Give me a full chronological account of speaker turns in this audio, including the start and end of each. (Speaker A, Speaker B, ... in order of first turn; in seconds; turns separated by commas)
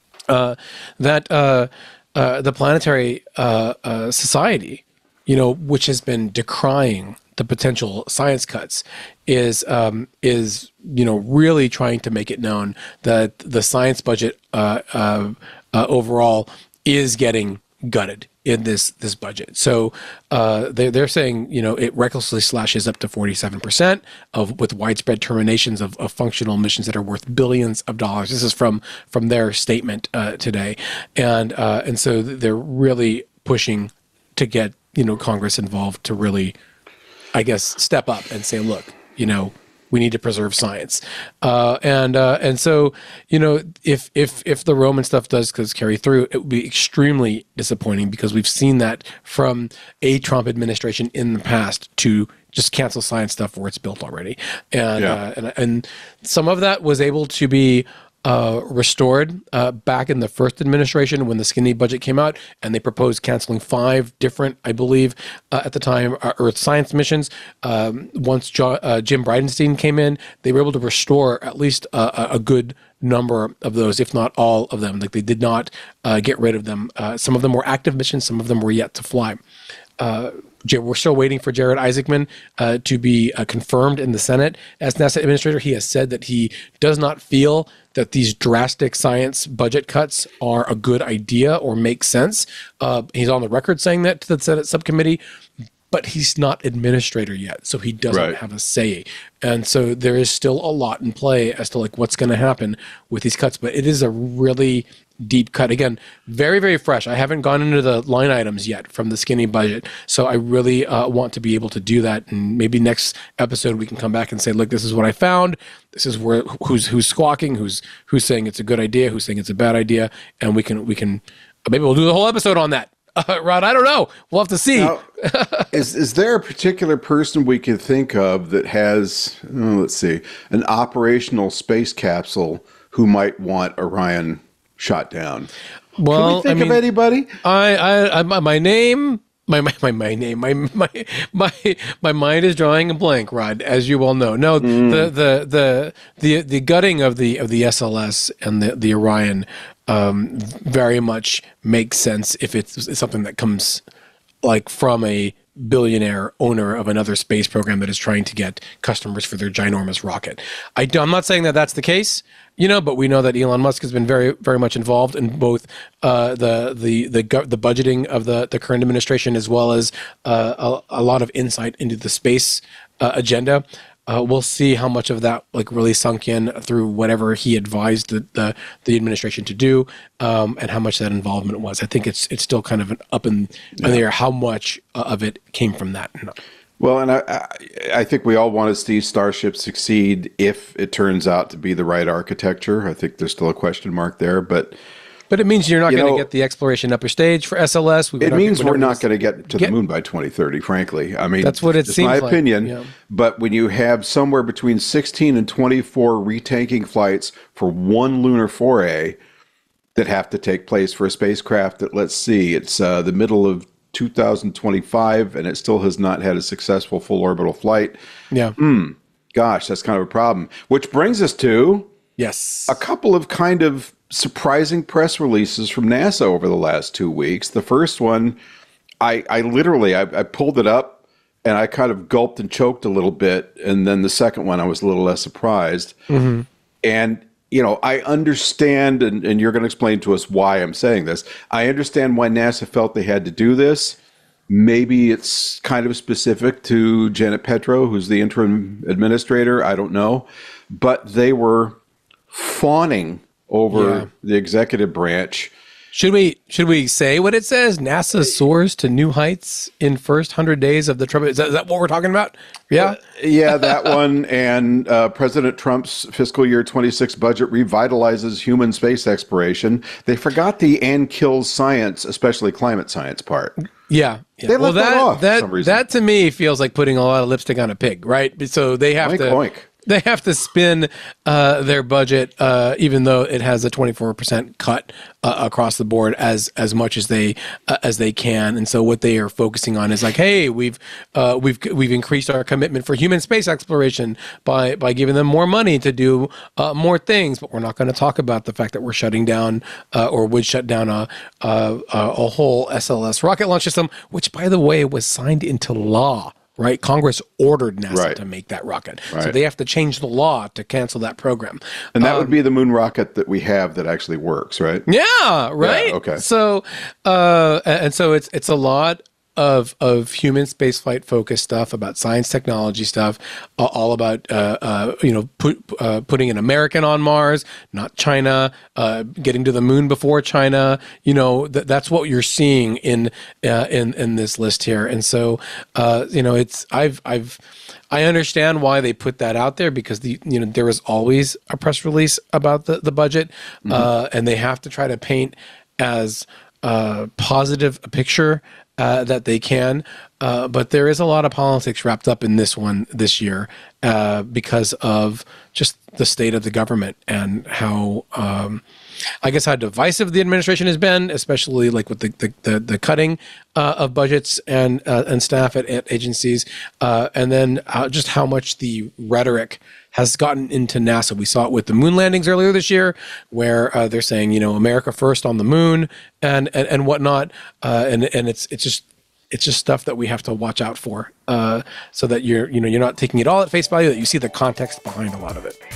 Speaker A: 0.3-36.5, Speaker A: 37.3-79.4, Speaker A: 80.0-95.2, Speaker A: 95.9-125.7, Speaker B: 98.1-98.4, Speaker B: 124.7-125.0, Speaker B: 125.7-135.5, Speaker A: 136.0-136.8, Speaker B: 136.1-137.3, Speaker A: 137.4-153.8, Speaker B: 144.6-145.1, Speaker A: 154.4-186.3, Speaker B: 186.8-194.8, Speaker A: 195.3-199.7, Speaker B: 195.9-196.3, Speaker B: 198.2-209.2, Speaker A: 201.4-202.9, Speaker B: 209.9-218.0, Speaker A: 218.3-218.6, Speaker B: 218.6-221.9, Speaker A: 222.2-222.8, Speaker B: 222.7-228.4, Speaker B: 229.0-235.9, Speaker A: 236.1-236.4, Speaker B: 236.8-244.0, Speaker B: 244.5-251.8, Speaker B: 252.3-255.5, Speaker A: 253.7-254.1, Speaker A: 255.9-263.8, Speaker B: 262.7-273.5, Speaker A: 273.9-312.4, Speaker B: 274.5-275.8, Speaker B: 279.0-279.7, Speaker B: 307.9-308.2, Speaker B: 309.1-309.4, Speaker B: 311.9-314.9, Speaker A: 314.9-358.6, Speaker B: 315.6-316.2, Speaker A: 359.2-385.6